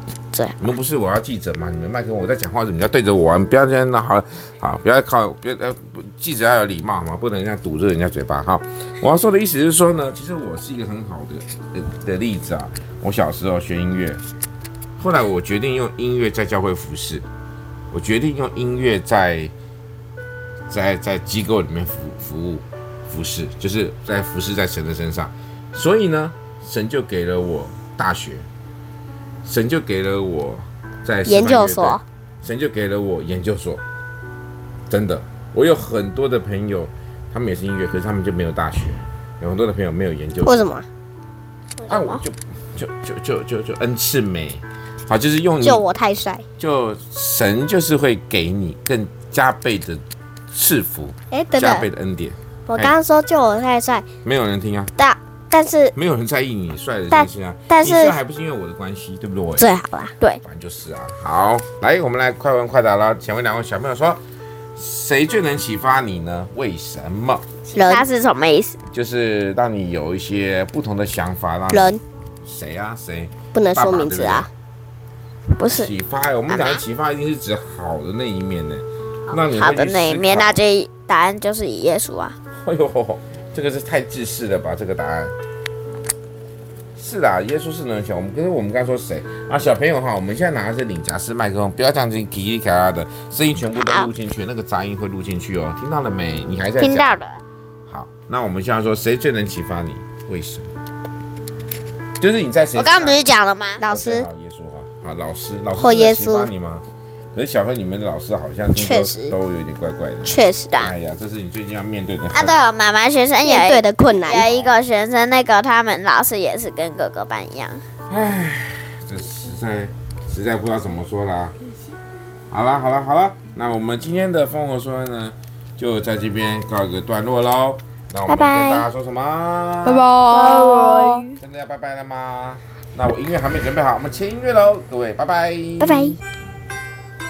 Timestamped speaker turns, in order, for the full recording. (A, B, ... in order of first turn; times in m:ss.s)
0:00.6-0:14.2 A
0:15.0-0:17.2 A
0:17.9-0:19.5 A
0:20.7-0:28.5 A
0:29.4-0:33.8 A
0:31.2-0:32.0 B
0:34.9-0:40.6 A
0:40.4-0:40.8 B
0:41.9-0:45.8 A
0:41.9-0:42.2 C
0:45.6-0:46.4 B
0:46.6-0:53.0 A
0:51.3-0:51.9 B
0:52.7-0:54.0 B
0:54.2-0:54.9 A
0:55.0-0:55.9 B
0:55.9-0:59.7 A
0:57.1-0:58.2 B
0:59.6-1:00.2 B
1:00.4-1:04.2 A
1:04.8-1:07.4 A
1:07.7-1:08.1 B
1:07.7-1:08.8 C
1:08.9-1:14.5 A
1:11.7-1:12.0 B
1:13.5-1:14.5 B
1:15.6-1:15.9 C
1:15.7-1:20.6 A
1:16.5-1:16.8 C
1:19.3-1:22.4 C
1:22.6-1:25.3 A
1:27.0-1:37.2 A
1:33.7-1:34.1 C
1:36.8-1:37.4 C
1:37.9-1:40.7 A
1:42.2-1:43.2 A
1:42.7-1:43.8 C
1:43.8-1:44.3 B
1:43.8-1:52.6 A
1:45.8-1:46.5 B
1:48.7-1:49.3 B
1:50.2-1:50.7 B
1:50.7-1:50.9 C
1:52.3-1:57.8 C
1:53.4-1:54.5 B
1:54.4-1:54.7 A
1:58.1-2:01.5 A
2:02.5-2:10.1 A
2:08.3-2:08.8 B
2:10.0-2:11.2 C
2:10.1-2:11.3 B
2:11.4-2:16.2 A
2:15.8-2:16.2 B